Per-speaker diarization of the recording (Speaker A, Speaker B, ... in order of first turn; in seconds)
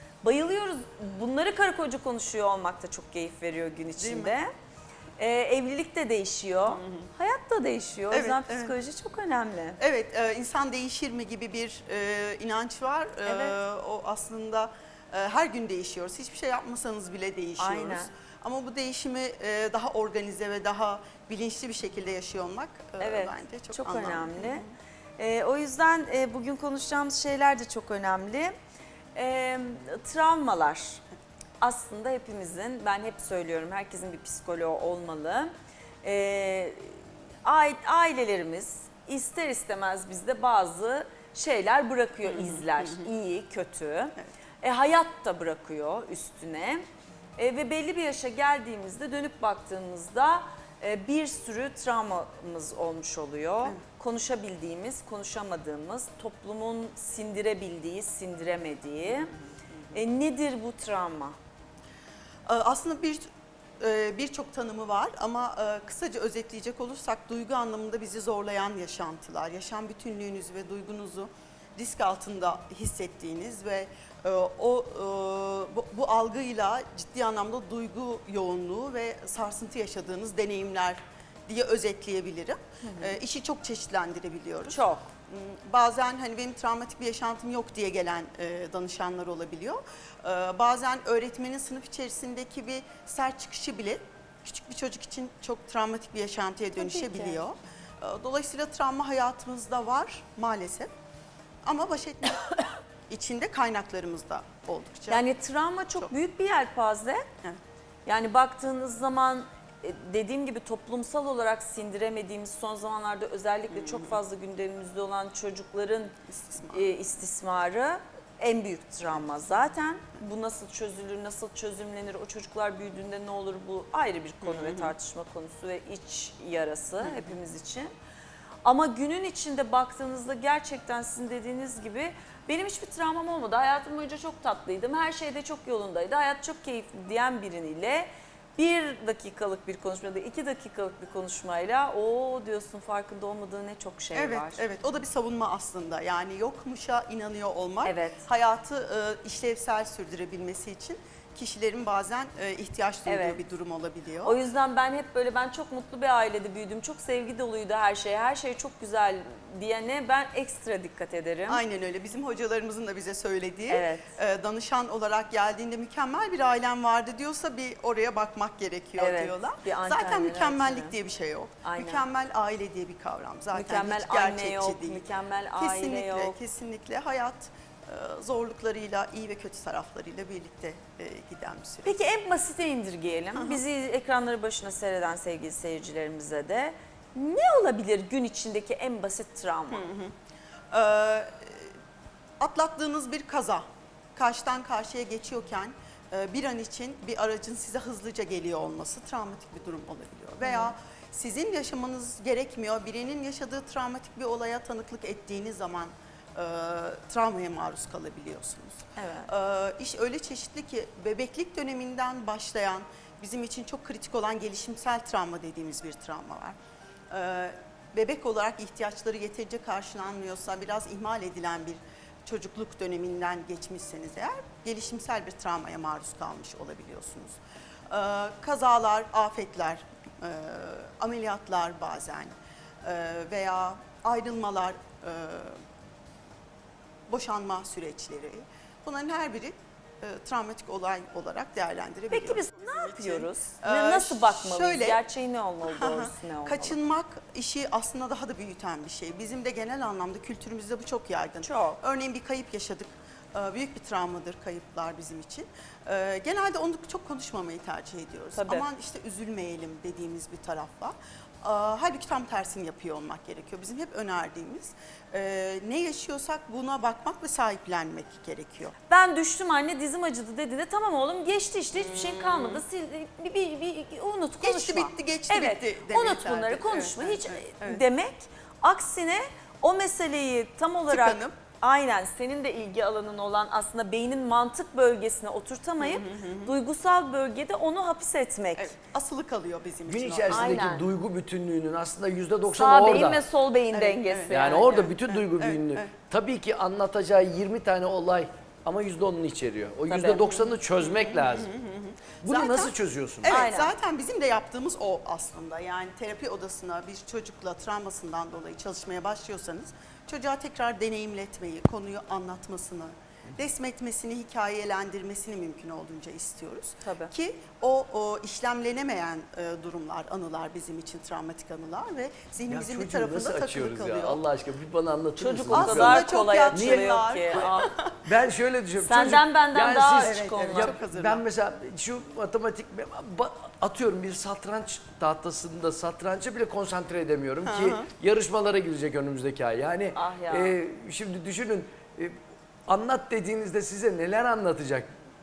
Speaker A: 0.2-4.5, 5.2-9.8, 13.2-13.6, 17.6-18.1, 23.0-24.6, 25.2-28.5, 29.1-31.0, 31.6-35.5, 36.0-46.8, 47.4-59.3, 59.9-61.4, 82.8-83.2, 84.7-85.1, 96.8-97.4, 105.1-107.2, 108.0-116.1, 116.7-127.9, 128.6-144.6, 147.8-148.2, 153.1-153.4, 154.2-161.6, 163.7-164.1, 169.0-170.9, 171.6-172.1, 173.5-176.3, 181.8-189.8, 200.4-200.7, 208.9-209.3, 242.1-246.8, 251.4-251.8, 258.3-258.6, 268.9-288.7, 290.3-290.8, 292.5-294.9, 299.9-300.4, 303.2-303.7, 316.8-317.1, 325.2-327.7, 328.8-330.8, 339.9-340.6
Speaker B: 4.0-4.4, 6.7-7.1, 8.1-8.8, 9.8-24.7, 42.2-43.1, 59.1-60.0, 62.5-63.2, 63.8-100.9, 101.6-105.2, 113.7-114.2, 116.3-116.9, 124.4-124.9, 127.0-127.3, 144.1-154.4, 161.5-175.0, 175.6-182.0, 183.3-183.6, 189.7-190.1, 190.7-191.7, 192.4-193.6, 194.2-216.5, 217.1-227.4, 227.9-235.6, 237.1-245.0, 245.6-268.7, 271.8-272.6, 274.4-277.8, 280.9-281.3, 285.8-286.5, 288.6-290.5, 293.7-295.9, 300.8-324.2, 325.5-328.1, 330.0-331.2, 337.4-337.9
Speaker C: 289.9-293.2, 294.3-301.5, 302.2-303.4, 322.5-327.4, 328.0-344.9